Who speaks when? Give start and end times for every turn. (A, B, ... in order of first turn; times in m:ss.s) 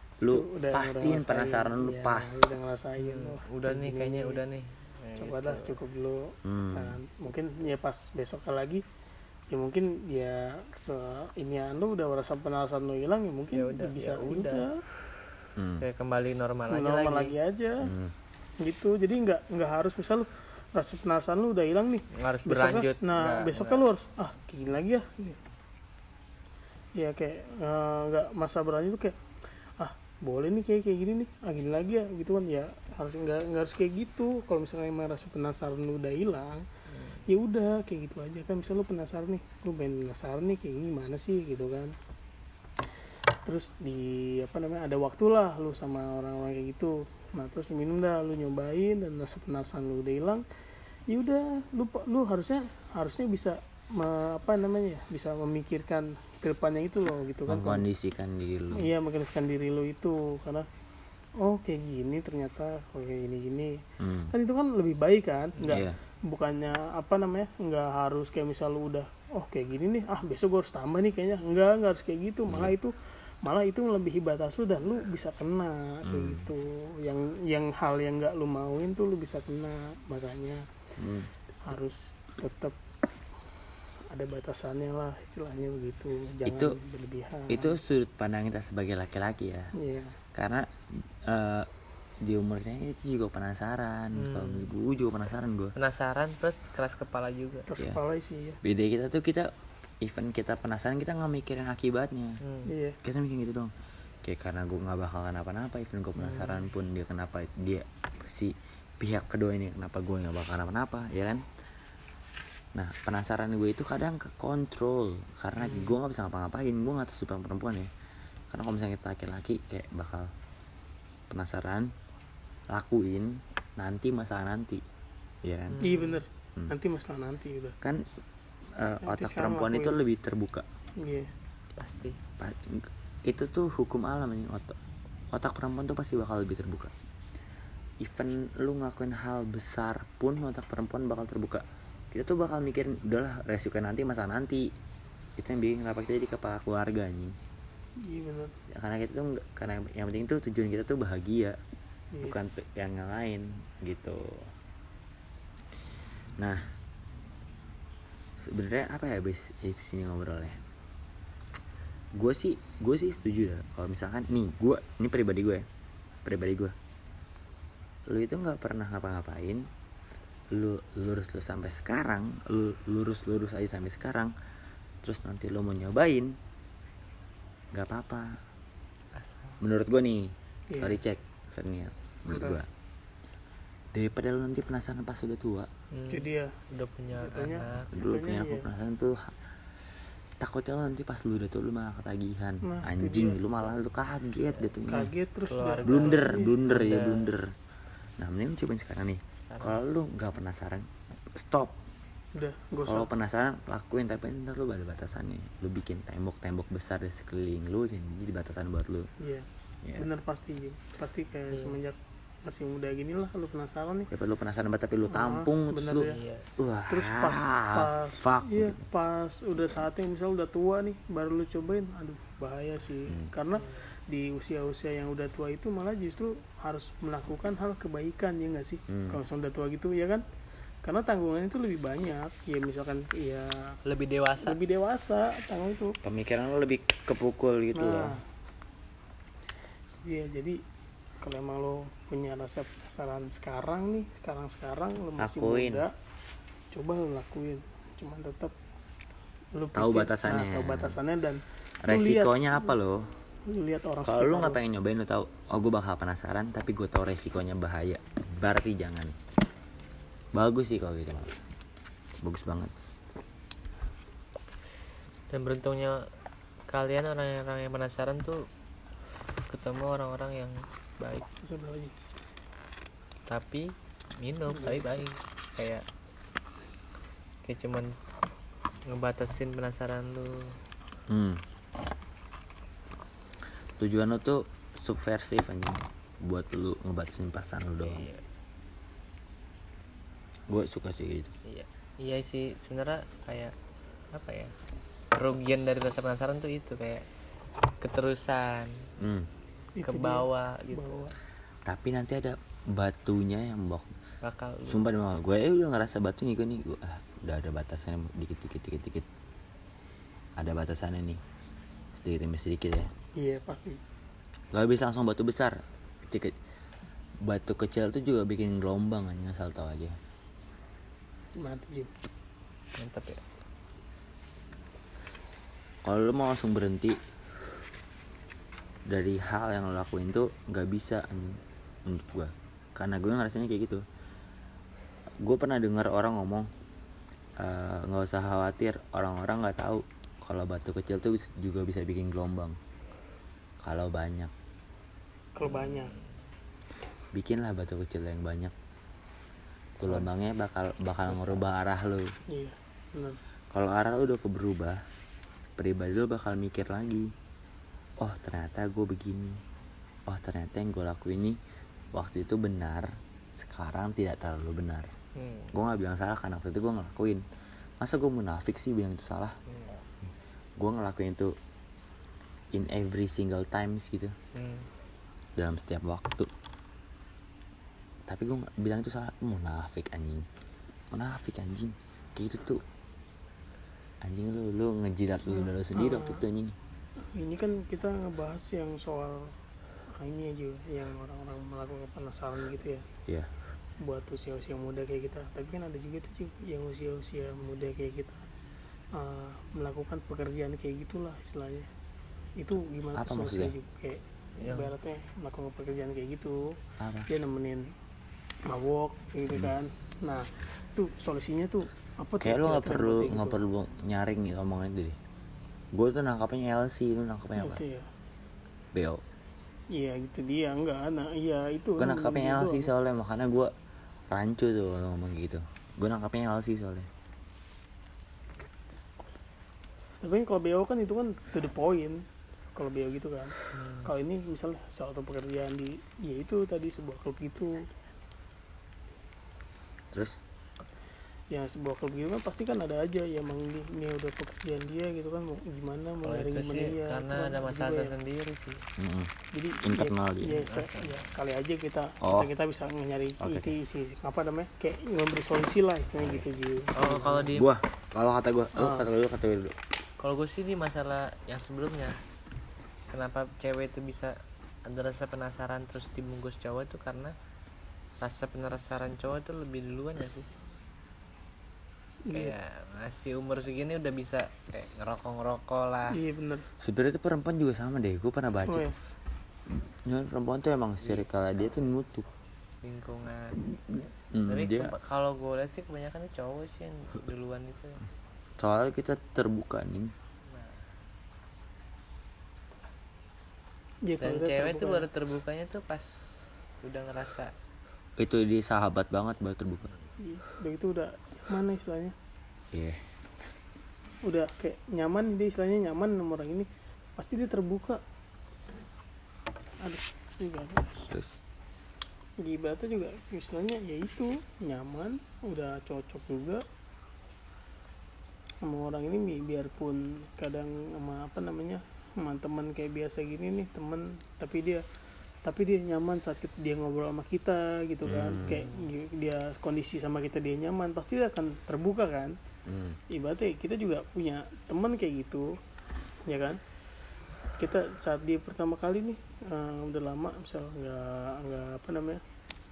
0:00.2-0:02.6 A
0:00.2-0:04.4 B
0:03.0-0:05.8 C
0:05.2-0:08.8 B
0:06.4-0:07.0 A
0:09.5-0:14.8 B
0:13.5-0:14.6 C
0:15.6-0:15.8 A
0:15.8-0:17.3 C
0:16.7-0:17.9 B
0:17.8-0:18.1 A
0:18.6-0:25.4 B
0:22.1-0:23.8 C
0:27.0-0:29.2 B
0:29.8-0:36.7 B
0:36.9-0:37.2 C
0:37.2-0:41.9 B
0:43.4-0:50.4 B
0:51.1-0:57.8 B
0:57.5-0:58.9 A
0:58.7-1:00.7 B
1:01.4-1:20.7 B
1:04.0-1:04.3 A
1:05.7-1:06.0 A
1:12.5-1:12.7 A
1:16.0-1:16.5 A
1:21.0-1:21.3 A
1:21.6-1:22.8 B
1:24.1-1:27.8 B
1:26.4-1:26.8 A
1:27.5-1:29.7 A
1:29.7-1:30.2 B
1:30.3-1:31.7 A
1:32.2-1:35.7 A
1:34.1-1:34.7 C
1:35.8-1:37.7 C
1:37.7-1:38.6 B
1:38.6-1:42.4 A
1:42.4-1:42.7 C
1:42.6-1:43.0 B
1:43.0-1:43.7 A
1:44.2-1:51.4 A
1:46.2-1:46.6 B
1:52.7-1:57.9 A
1:58.5-2:00.3 A
2:01.3-2:01.9 A
2:02.7-2:04.8 A
2:05.4-2:05.8 A
2:05.7-2:06.2 C
2:05.8-2:07.8 B
2:08.7-2:10.6 A
2:09.0-2:10.0 B
2:11.0-2:11.3 B
2:11.8-2:12.2 C
2:12.4-2:14.8 A
2:15.3-2:16.9 A
2:18.0-2:24.7 A
2:25.4-2:27.4 A
2:28.0-2:28.5 B
2:28.7-2:31.6 A
2:32.1-2:32.4 B
2:32.2-2:34.5 A
2:36.4-2:36.6 A
2:38.4-2:40.6 A
2:42.2-2:45.6 A
2:46.2-2:46.7 A
2:48.1-2:49.7 A
2:50.5-2:54.3 A
2:55.0-2:56.4 A
2:57.7-2:58.4 A
2:59.1-2:59.6 C
2:59.6-3:02.7 A
3:00.7-3:01.0 B
3:02.3-3:02.6 B
3:03.9-3:05.7 A
3:05.9-3:07.9 C
3:06.1-3:06.6 B
3:07.1-3:08.7 B
3:07.9-3:09.4 A
3:10.4-3:15.1 A
3:12.6-3:13.4 B
3:14.9-3:16.6 B
3:15.5-3:17.3 C
3:15.8-3:17.5 A
3:18.2-3:21.8 A
3:19.5-3:19.8 C
3:22.3-3:23.1 B
3:22.8-3:29.1 A
3:29.2-3:34.1 B
3:31.5-3:31.8 C
3:34.1-3:38.8 A
3:35.1-3:36.2 B
3:36.0-3:36.5 C
3:36.9-3:50.2 B
3:48.9-3:49.2 A
3:50.8-3:53.8 B
3:53.8-3:54.6 C
3:54.4-3:56.0 B
3:56.0-3:58.2 A
3:57.7-3:58.2 B
4:00.0-4:00.6 B
4:01.2-4:05.9 B
4:05.2-4:05.8 A
4:06.7-4:08.5 B
4:09.5-4:12.5 B
4:09.7-4:11.0 A
4:11.8-4:13.1 A
4:13.5-4:14.6 B
4:14.0-4:19.1 A
4:20.3-4:21.3 A
4:22.2-4:22.7 A
4:25.3-4:26.0 C
4:26.7-4:28.5 C
4:29.5-4:31.2 C
4:31.4-4:31.9 B
4:33.3-4:35.8 C
4:34.5-4:35.0 B
4:37.4-4:38.0 C
4:38.9-4:40.5 C
4:41.1-4:41.4 A
4:43.8-4:48.0 A
4:47.8-4:48.2 C
4:50.5-4:51.3 A
4:51.4-4:53.5 C
4:54.1-4:54.5 C
4:55.1-4:57.0 C
4:57.8-4:58.8 C
4:59.0-4:59.3 A
4:59.8-5:01.1 B
4:59.8-5:01.0 C
5:01.6-5:03.9 A
5:04.2-5:04.8 C
5:04.6-5:09.1 A
5:10.4-5:11.2 A
5:11.9-5:12.9 A
5:13.2-5:13.8 B
5:14.5-5:16.4 A
5:17.2-5:20.0 A
5:21.4-5:21.9 B
5:22.8-5:23.2 C
5:25.8-5:27.0 A
5:28.9-5:33.8 A
5:35.2-5:36.5 A
5:37.4-5:42.6 A
5:43.6-5:44.3 A
5:45.4-5:45.9 B
5:45.4-5:46.0 C
5:47.1-5:48.5 A
5:49.8-5:52.1 A
5:52.3-5:53.2 B
5:53.5-5:54.8 A
5:55.6-5:57.1 A
5:58.0-5:59.4 A
6:00.1-6:01.4 A
6:01.9-6:04.9 A
6:05.2-6:05.5 C
6:05.5-6:07.2 A
6:07.8-6:09.4 A
6:09.5-6:09.8 C
6:10.0-6:11.4 A
6:12.5-6:14.1 A
6:14.3-6:14.7 C
6:15.4-6:16.3 A
6:18.1-6:20.3 A
6:20.9-6:22.6 A
6:24.0-6:26.6 A
6:25.3-6:26.2 B
6:27.0-6:29.4 B
6:29.9-6:32.8 B
6:33.8-6:38.2 B
6:38.9-6:41.7 B
6:42.4-6:47.7 B
6:42.9-6:43.5 A
6:44.4-6:44.7 C
6:46.8-6:47.1 A
6:48.5-6:53.4 B
6:52.2-6:55.0 A
6:55.7-6:57.6 A
6:57.4-6:57.9 B
6:58.7-6:59.0 A
6:59.7-7:02.7 B
7:01.8-7:03.5 A
7:04.1-7:06.9 A
7:10.0-7:17.7 B
7:13.5-7:13.9 C
7:19.9-7:20.2 A
7:21.3-7:27.9 B
7:26.0-7:28.6 C
7:28.8-7:29.1 A
7:29.3-7:37.3 B
7:29.6-7:30.4 A
7:30.2-7:31.0 C
7:32.0-7:32.3 A
7:33.2-7:33.6 A
7:36.0-7:36.2 A
7:36.7-7:37.5 C
7:37.3-7:39.6 A
7:38.6-7:38.9 B
7:40.0-7:42.0 C
7:42.9-7:47.1 C
7:48.0-7:50.3 C
7:52.1-7:52.4 B
7:52.1-7:56.0 C
7:55.9-7:56.4 B
7:56.6-7:58.7 A
7:58.4-7:58.7 B
7:59.5-8:02.1 A
8:00.8-8:01.1 C
8:02.6-8:03.4 C
8:04.1-8:04.7 A
8:04.2-8:07.8 C
8:08.4-8:09.9 A
8:10.3-8:10.6 C
8:13.8-8:14.9 B
8:14.0-8:17.3 C
8:18.0-8:19.7 A
8:20.0-8:21.9 B
8:22.5-8:22.8 A
8:24.0-8:27.8 B
8:29.6-8:30.8 B
8:30.8-8:31.1 A
8:32.2-8:36.4 B
8:38.4-8:44.6 B
8:45.2-8:52.2 B
8:47.8-8:48.4 A
8:48.2-8:48.7 C
8:52.4-8:52.8 A
8:52.9-8:55.4 B
8:56.0-8:56.4 B
8:57.4-9:02.0 B